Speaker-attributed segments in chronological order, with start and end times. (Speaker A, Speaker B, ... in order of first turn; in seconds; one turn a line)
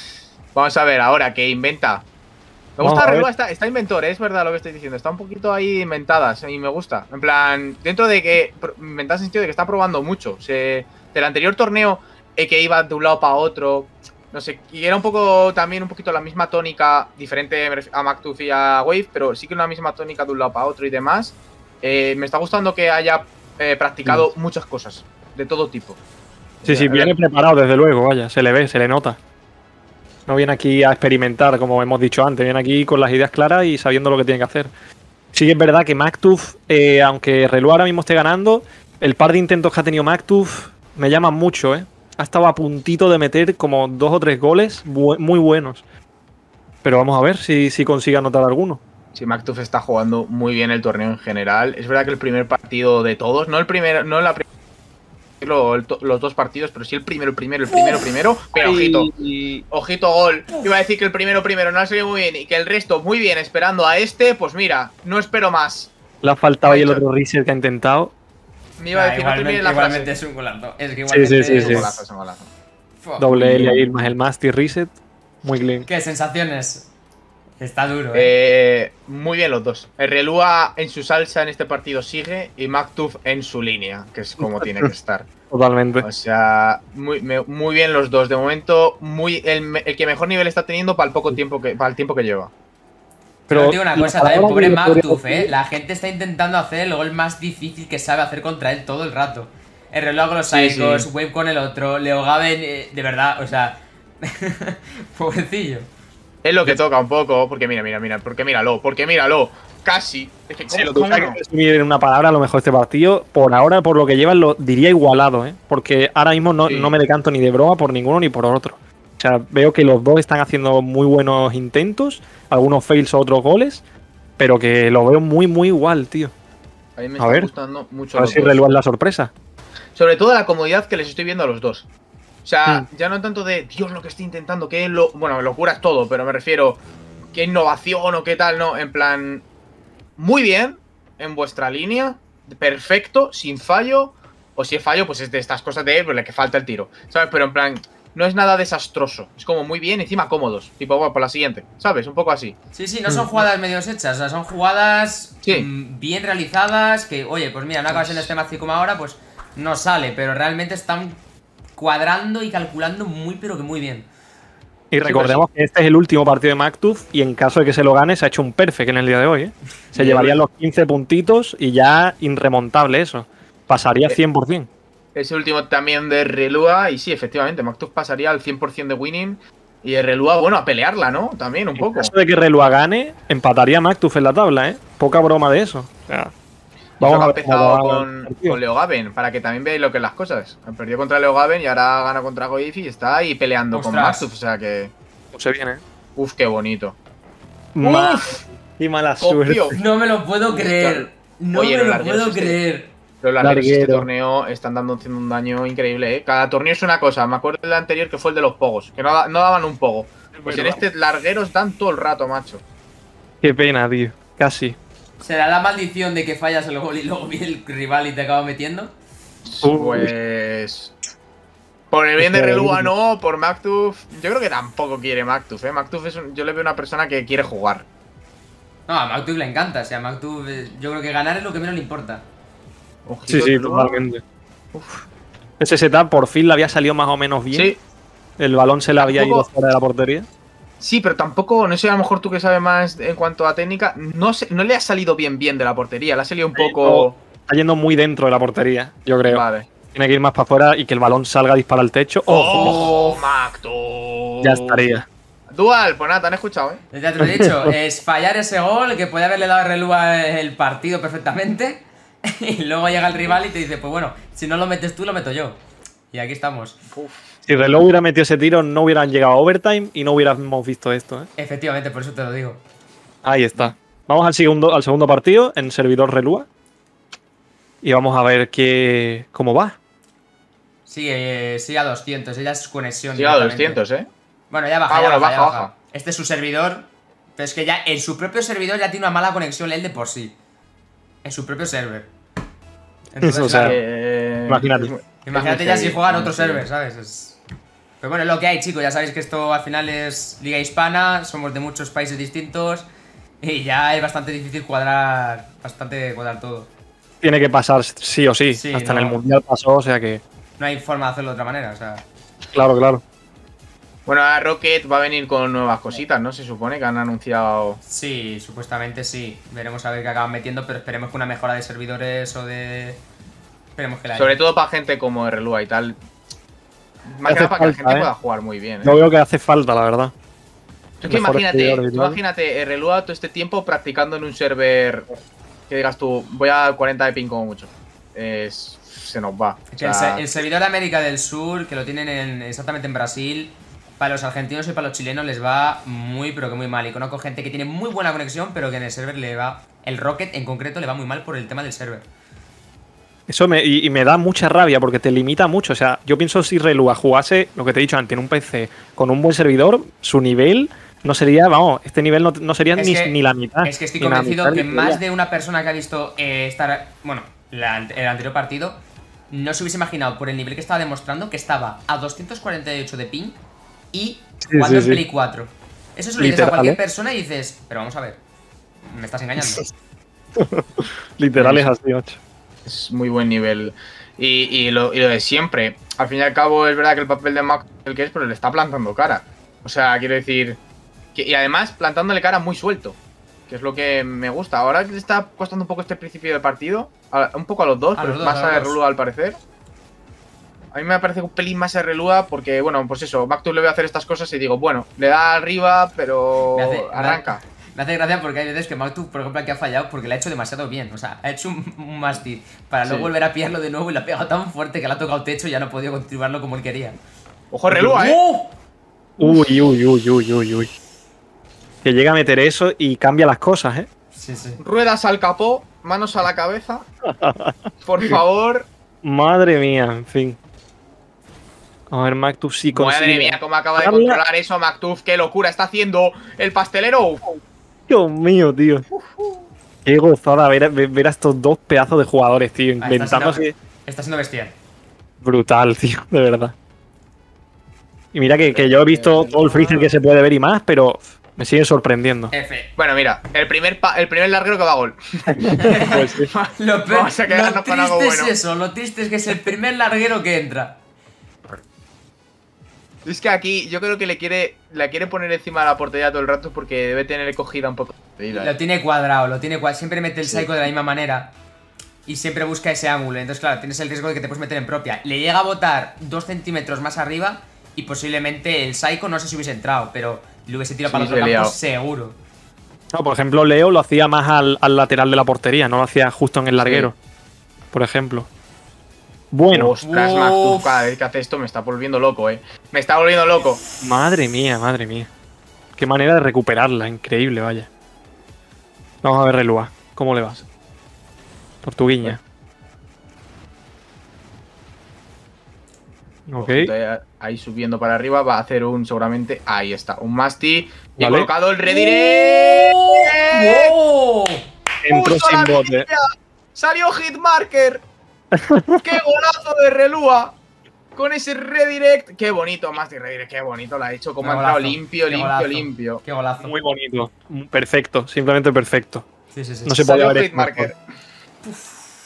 Speaker A: 0.6-2.1
Speaker A: 2.8-26.0
Speaker B: 2.8-3.3
Speaker A: 26.6-27.1
Speaker B: 26.6-29.2
Speaker B: 30.3-34.7
Speaker B: 35.3-45.8
Speaker B: 46.8-48.8
Speaker A: 49.1-54.5
Speaker A: 55.4-59.1
Speaker B: 58.5-59.6
Speaker A: 59.7-65.9
Speaker B: 66.2-68.1
Speaker A: 66.6-67.0
Speaker A: 68.8-70.1
Speaker C: 68.9-72.0
Speaker B: 71.1-71.9
Speaker A: 71.5-72.5
Speaker C: 73.0-73.3
Speaker B: 73.2-75.9
Speaker A: 73.3-73.9
Speaker C: 75.8-76.9
Speaker C: 77.6-78.3
Speaker A: 78.1-85.3
Speaker B: 84.4-84.9
Speaker B: 85.5-86.1
Speaker A: 86.0-92.5
Speaker C: 93.5-105.9
Speaker B: 93.5-95.5
Speaker A: 100.5-101.1
Speaker A: 106.4-111.4
Speaker B: 110.7-123.8
Speaker A: 116.7-116.9
Speaker B: 124.4-126.3
Speaker A: 127.0-128.6
Speaker B: 127.2-127.5
Speaker B: 128.2-129.3
Speaker A: 130.0-131.9
Speaker A: 132.4-136.8
Speaker A: 137.3-139.4
Speaker A: 140.2-152.6
Speaker C: 152.7-161.2
Speaker A: 153.1-153.4
Speaker A: 157.9-158.3
Speaker C: 161.8-164.1
Speaker B: 164.9-174.7
Speaker A: 165.0-165.4
Speaker A: 169.9-170.4
Speaker A: 175.2-182.1
Speaker B: 181.8-186.3
Speaker B: 187.0-188.6
Speaker A: 187.0-194.9
Speaker C: 193.7-194.3
Speaker B: 195.3-195.8
Speaker A: 196.2-197.0
Speaker B: 197.8-199.8
Speaker A: 197.8-198.4
Speaker A: 199.2-199.8
Speaker C: 199.8-202.9
Speaker A: 200.5-202.6
Speaker A: 203.2-212.6
Speaker B: 203.4-204.1
Speaker B: 210.3-210.8
Speaker B: 213.4-214.8
Speaker C: 215.2-218.9
Speaker A: 219.5-220.9
Speaker B: 219.6-220.1
Speaker A: 221.9-227.8
Speaker B: 222.2-222.9
Speaker C: 228.9-232.3
Speaker A: 233.1-234.0
Speaker B: 233.3-234.2
Speaker A: 234.7-235.1
Speaker B: 235.6-237.8
Speaker A: 237.5-237.8
Speaker B: 238.4-240.3
Speaker A: 239.0-239.5
Speaker A: 240.8-247.2
Speaker B: 246.6-252.9
Speaker A: 249.3-249.7
Speaker A: 252.3-254.9
Speaker C: 252.6-253.2
Speaker B: 254.4-255.1
Speaker A: 255.5-256.8
Speaker C: 256.9-265.6
Speaker B: 257.2-257.7
Speaker C: 266.1-266.8
Speaker A: 266.9-267.4
Speaker B: 267.5-271.3
Speaker C: 271.4-272.6
Speaker B: 273.2-276.5
Speaker B: 277.8-279.8
Speaker C: 280.9-283.8
Speaker A: 283.1-284.1
Speaker C: 284.5-290.3
Speaker A: 284.9-285.7
Speaker C: 291.2-292.1
Speaker C: 293.1-293.8
Speaker B: 293.2-293.8
Speaker A: 293.5-296.7
Speaker B: 294.5-294.9
Speaker C: 295.2-297.4
Speaker C: 298.0-302.9
Speaker C: 303.4-306.7
Speaker B: 307.2-310.2
Speaker C: 308.5-309.2
Speaker C: 310.6-312.1
Speaker B: 312.5-313.0
Speaker A: 314.1-317.8
Speaker C: 317.9-323.0
Speaker C: 323.8-324.4
Speaker A: 324.1-326.0
Speaker A: 327.1-329.0
Speaker B: 327.2-328.1
Speaker B: 328.8-330.1
Speaker A: 331.0-335.1
Speaker B: 331.0-332.2
Speaker A: 335.7-340.4
Speaker C: 339.7-352.1
Speaker B: 353.3-365.0
Speaker C: 362.8-368.8
Speaker C: 369.3-373.4
Speaker C: 373.9-378.2
Speaker B: 374.4-375.0
Speaker B: 376.2-376.8
Speaker C: 378.9-379.7
Speaker B: 379.4-379.7
Speaker B: 380.4-382.2
Speaker A: 381.4-381.7
Speaker A: 382.7-390.6
Speaker A: 391.1-399.4
Speaker C: 398.0-398.8
Speaker A: 400.7-407.4
Speaker C: 406.5-417.0
Speaker A: 412.9-413.1
Speaker A: 417.5-418.2
Speaker C: 417.7-418.5
Speaker B: 419.2-420.7
Speaker B: 421.8-423.9
Speaker C: 424.1-424.6
Speaker A: 424.6-426.9
Speaker B: 427.1-428.2
Speaker A: 427.8-428.7
Speaker B: 429.0-430.4
Speaker B: 431.9-434.2
Speaker A: 432.7-437.2
Speaker B: 437.9-438.9
Speaker A: 439.1-439.4
Speaker B: 439.9-443.6
Speaker C: 442.8-444.6
Speaker B: 445.2-446.6
Speaker B: 448.1-452.3
Speaker A: 448.3-449.9
Speaker C: 452.3-452.7
Speaker A: 452.8-458.4
Speaker B: 455.3-456.3
Speaker C: 455.5-460.8
Speaker A: 463.1-468.5
Speaker C: 468.3-471.3
Speaker A: 470.2-470.5
Speaker C: 472.1-482.2
Speaker A: 480.9-481.6
Speaker B: 482.9-487.0
Speaker A: 486.6-486.9
Speaker B: 487.7-488.3
Speaker B: 489.3-489.7
Speaker A: 489.5-493.6
Speaker C: 489.9-490.9
Speaker B: 493.8-495.1
Speaker B: 495.8-497.7
Speaker B: 499.0-500.4
Speaker B: 501.6-502.2
Speaker B: 506.3-506.7
Speaker A: 506.4-513.8
Speaker B: 511.0-511.3
Speaker C: 511.7-514.5
Speaker B: 514.8-515.9
Speaker A: 514.9-517.8
Speaker B: 518.3-519.0
Speaker A: 518.8-520.4
Speaker A: 521.0-526.0
Speaker C: 524.2-526.6
Speaker B: 526.4-529.0
Speaker C: 529.3-530.0
Speaker B: 529.7-530.7
Speaker A: 529.8-530.8
Speaker C: 531.4-531.8